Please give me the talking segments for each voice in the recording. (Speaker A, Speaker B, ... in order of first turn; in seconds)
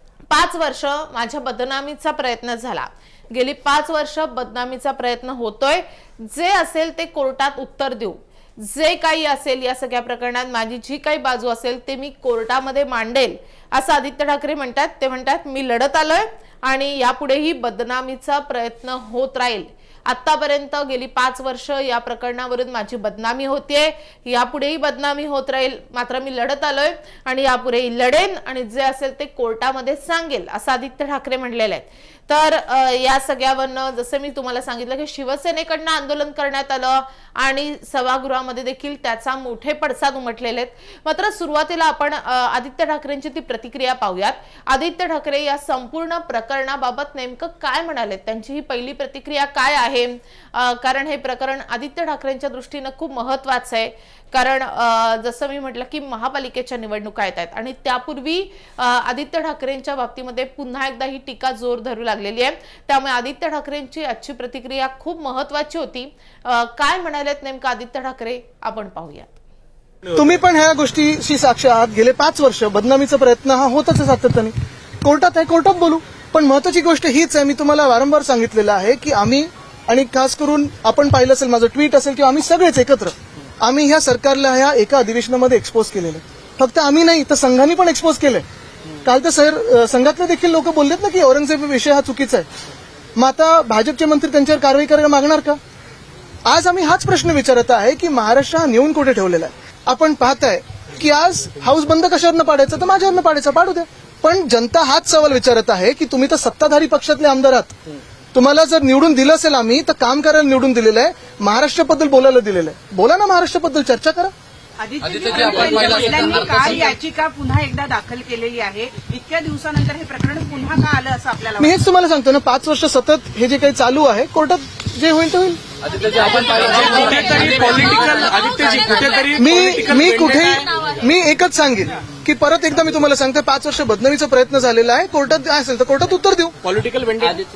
Speaker A: 0.3-69.3
Speaker B: 70.1-88.5, 89.0-92.5, 93.2-95.6, 96.5-107.8, 108.3-114.3, 121.6-125.6, 129.3-136.6
Speaker C: 114.8-121.8
Speaker D: 115.0-116.9, 125.9-130.6, 136.6-137.4